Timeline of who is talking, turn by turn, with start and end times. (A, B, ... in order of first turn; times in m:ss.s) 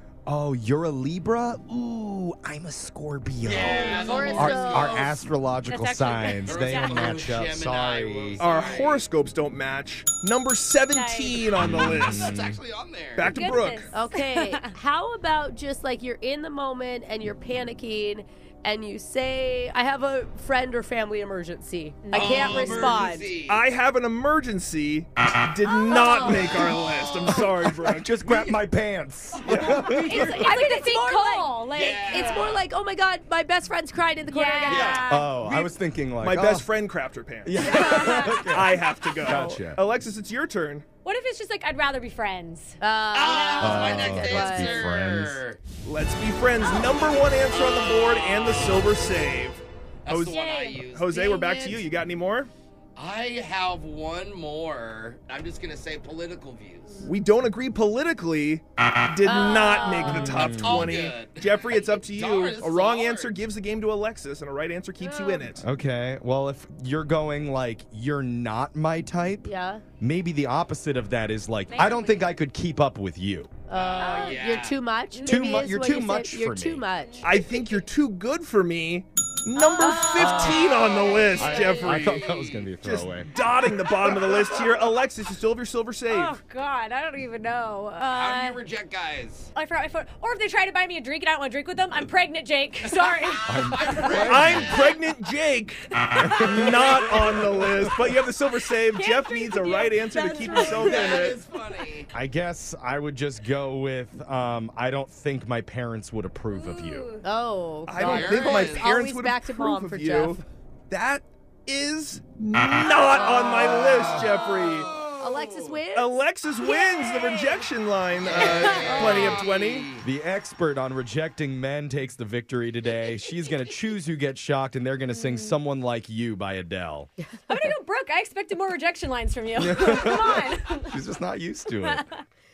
0:00.3-0:08.4 A
0:03.4-0:05.2 B
0:03.6-0:05.2 C
0:05.7-0:07.1 D
0:06.4-0:09.0 B
0:08.4-0:12.3 E
0:10.9-0:11.6 D
0:11.6-0:12.6 A
0:12.1-0:13.3 B
0:13.1-0:13.9 E
0:13.2-0:14.7 D
0:13.9-0:23.3 C
0:22.0-0:23.1 D
0:22.1-0:23.6 B
0:23.4-0:28.6 E
0:25.8-0:26.5 D
0:25.9-0:26.2 C
0:27.9-0:30.5 A
0:29.4-0:30.5 B
0:29.5-0:35.2 C
0:29.9-0:32.6 D
0:31.7-0:32.6 B
0:34.3-0:35.3 D
0:34.6-0:35.7 B
0:35.0-0:36.6 A
0:36.2-0:37.6 E
0:37.4-0:39.8 A
0:37.6-0:38.2 C
0:37.6-0:38.4 D
0:38.3-0:40.8 E
0:41.0-0:43.8 D
0:42.8-0:44.9 C
0:43.1-0:45.6 B
0:43.6-0:45.4 A
0:45.8-0:52.5 E
0:47.6-0:48.8 B
0:50.0-0:51.2 B
0:50.2-0:50.8 D
0:51.1-0:51.8 C
0:53.0-0:57.0 B
0:57.0-1:05.6 E
0:59.2-1:00.4 C
1:00.0-1:00.9 A
1:00.6-1:03.3 B
1:05.0-1:05.4 C
1:05.6-1:09.5 A
1:09.4-1:09.8 C
1:10.0-1:13.5 A
1:11.7-1:12.3 D
1:13.7-1:17.3 C
1:13.7-1:14.8 B
1:14.0-1:14.4 D
1:15.1-1:15.6 D
1:15.2-1:16.8 A
1:17.2-1:22.2 E
1:19.6-1:22.2 D
1:19.8-1:21.3 C
1:20.2-1:20.6 A
1:20.4-1:22.7 B
1:21.3-1:24.3 A
1:22.8-1:26.4 E
1:26.1-1:28.6 D
1:28.0-1:29.5 B
1:29.5-1:34.3 D
1:32.8-1:35.0 B
1:33.4-1:34.8 A
1:34.2-1:41.4 E
1:36.0-1:37.3 D
1:36.1-1:37.9 A
1:38.9-1:41.3 D
1:40.2-1:40.9 C
1:40.8-1:42.1 B
1:42.1-1:47.1 A
1:46.5-1:47.2 D
1:47.2-1:50.4 C
1:47.8-1:55.0 E
1:48.0-1:48.9 B
1:53.2-1:55.8 B
1:55.1-1:57.5 C
1:55.9-1:59.9 E
1:58.2-2:00.0 B
1:58.4-1:59.0 D
1:58.8-1:59.4 C
2:00.0-2:07.1 A
2:05.1-2:05.6 D
2:07.5-2:11.0 D
2:09.6-2:12.0 A
2:11.8-2:12.2 D